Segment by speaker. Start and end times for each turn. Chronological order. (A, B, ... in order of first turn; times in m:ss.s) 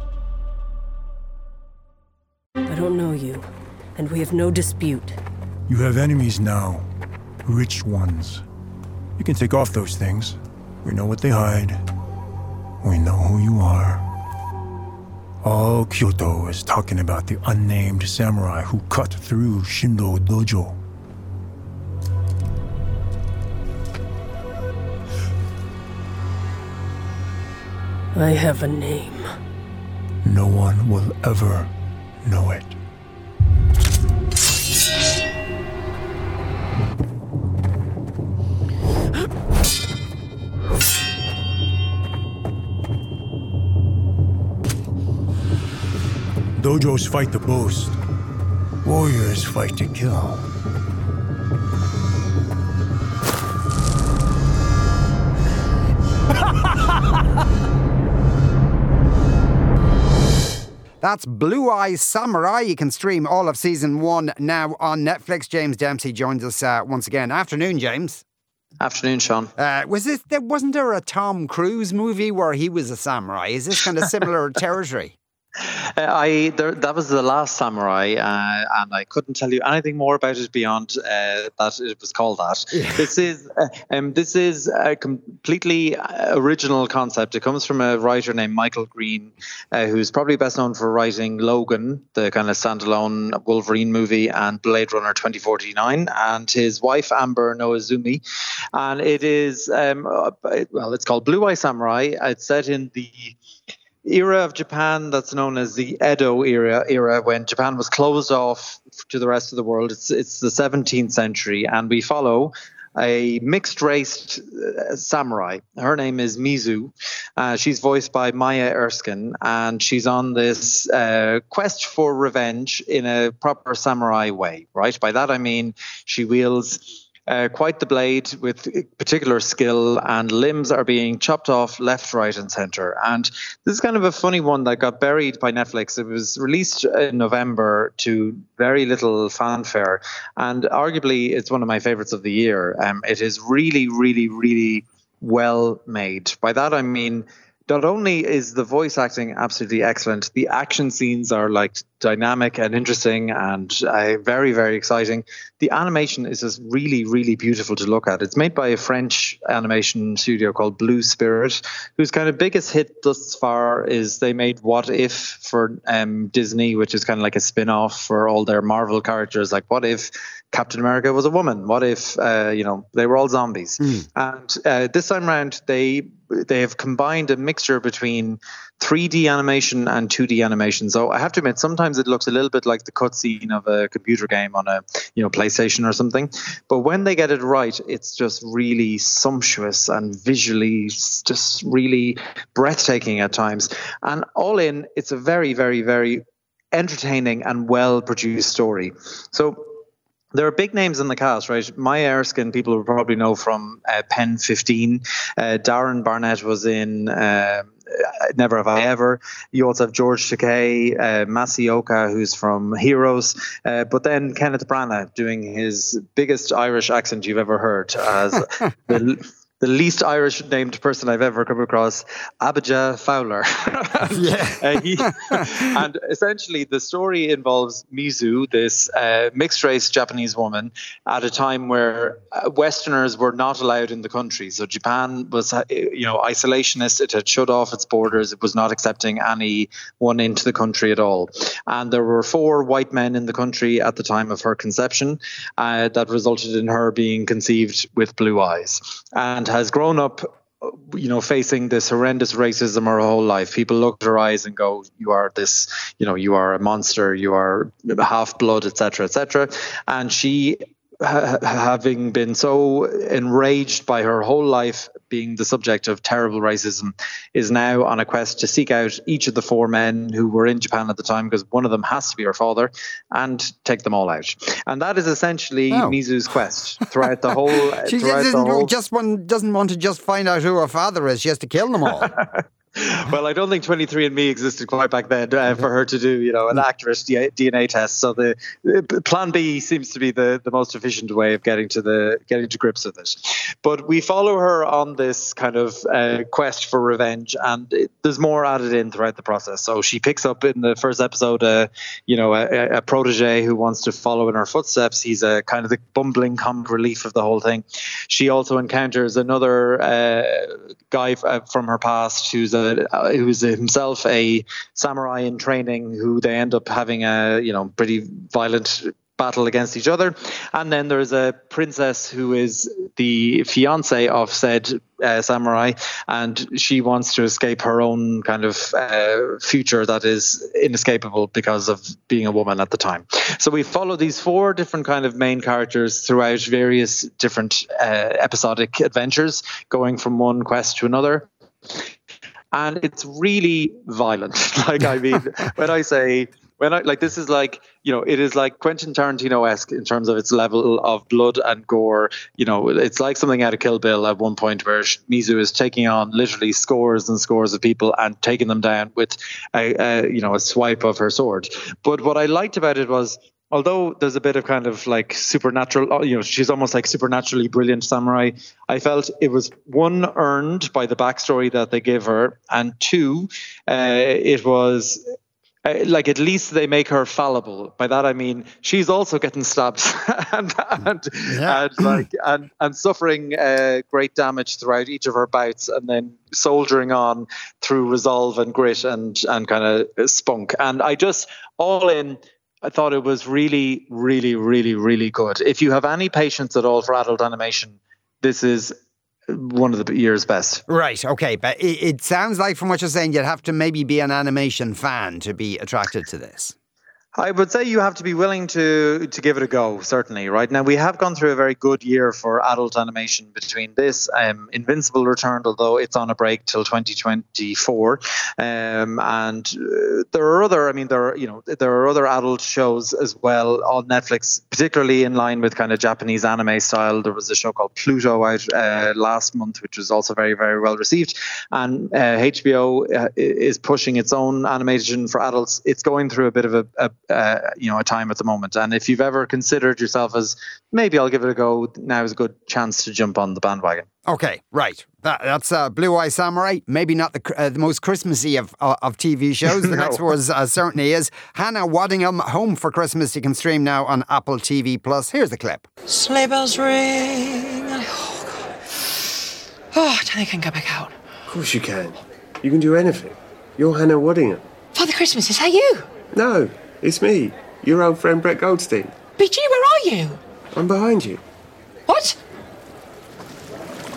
0:02.7-0:05.2 A
0:05.7-0:06.8 B
0:07.4-0:08.4 B
0:09.2-0:11.8 B
0:12.8-0:14.0 B
0:15.4-0:20.8 B
0:28.1-0:29.3 A
0:30.2-0:31.7 B
0:32.2-0:32.8 B
0:46.6-0:48.0 B
0:48.8-0:50.5 B
1:01.0-1:08.2 C
1:08.8-1:09.5 D
1:09.6-1:15.1 C
1:16.0-1:38.2 D
1:22.7-1:23.0 C
1:38.7-1:43.4 D
1:44.0-3:19.7 D
3:20.3-4:38.7 D
3:44.1-3:45.5 C
4:35.7-4:36.0 C
4:37.8-4:42.1 C
4:42.0-5:41.2 D
5:42.5-6:15.0 D
6:15.6-6:38.7 D
6:21.3-6:22.0 C
6:39.3-6:40.6 D
6:40.7-6:46.5 C
6:47.2-7:23.9 D
7:24.0-7:35.6 C
7:29.5-7:30.0 D
7:35.9-7:38.5 E
7:39.7-7:40.9 E
7:41.3-7:44.4 F
7:44.7-7:45.8 E
7:46.1-7:48.9 F
7:49.2-7:50.2 E
7:50.5-7:51.2 F
7:51.9-7:52.2 E